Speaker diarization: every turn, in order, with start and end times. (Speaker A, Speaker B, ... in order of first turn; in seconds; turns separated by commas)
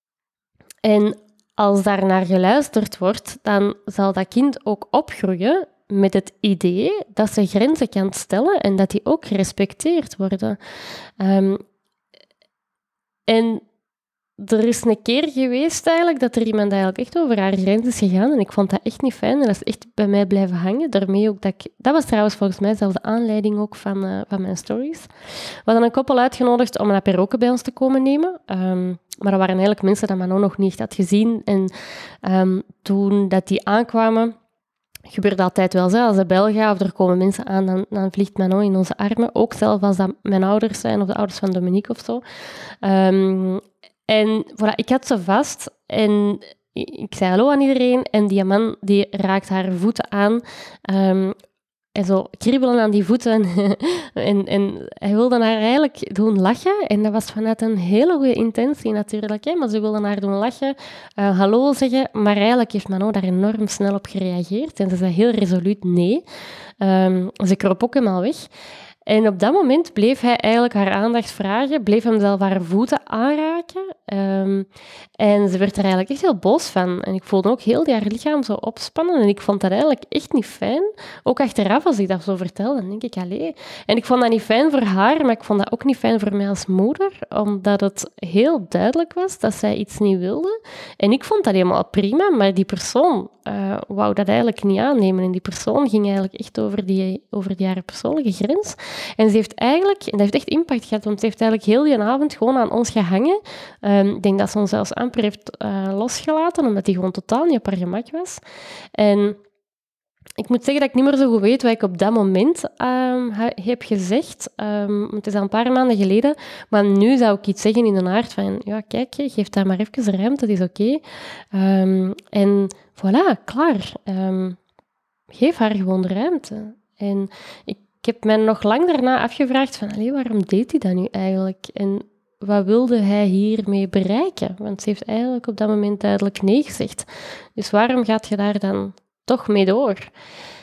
Speaker A: 0.8-10.6, Speaker A: 11.2-11.6, Speaker A: 13.3-13.6, Speaker A: 14.4-25.1, Speaker A: 25.7-31.7, Speaker A: 32.2-34.4, Speaker A: 35.1-42.2, Speaker A: 42.8-51.4, Speaker A: 52.0-66.2, Speaker A: 66.8-68.5, Speaker A: 69.1-74.7, Speaker A: 75.2-108.4, Speaker A: 109.0-109.4, Speaker A: 110.4-121.0, Speaker A: 121.5-124.6, Speaker A: 125.3-140.1